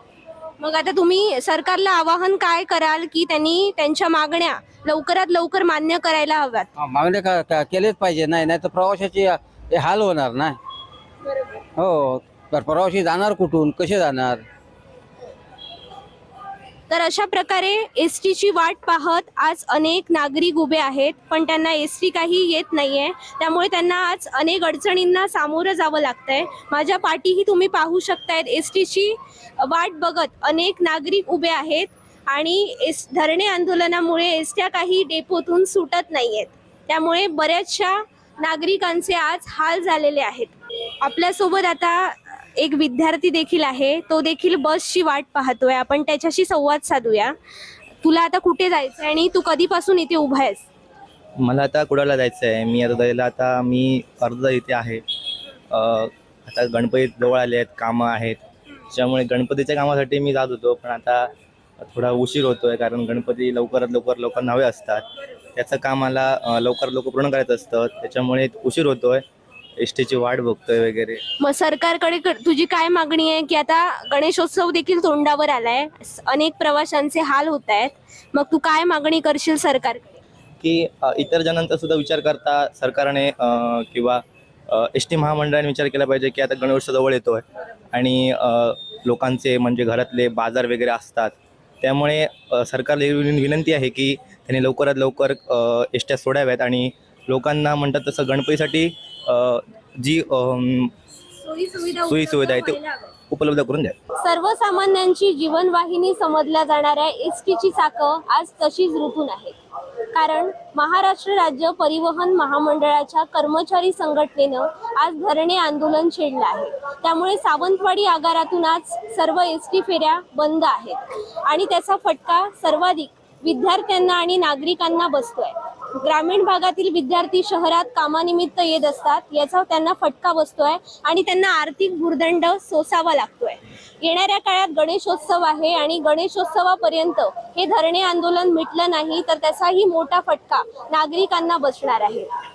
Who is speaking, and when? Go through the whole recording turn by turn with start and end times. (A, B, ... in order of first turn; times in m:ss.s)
0:00.6-0:06.7 A
0:06.8-0:10.6 B
0:11.2-0:11.6 A
0:11.8-0:14.4 B
0:16.9-0:47.3 A
0:48.0-0:50.7 A
0:51.4-0:55.0 C
0:55.7-1:01.3 C
1:01.8-1:05.0 C
1:05.6-1:09.2 C
1:09.8-1:11.2 C
1:11.4-1:20.2 A
1:20.6-1:40.9 C
1:41.4-1:43.1 A
1:42.0-1:42.8 C
1:43.3-1:44.0 C
1:44.2-1:49.6 A
1:50.1-2:22.3 A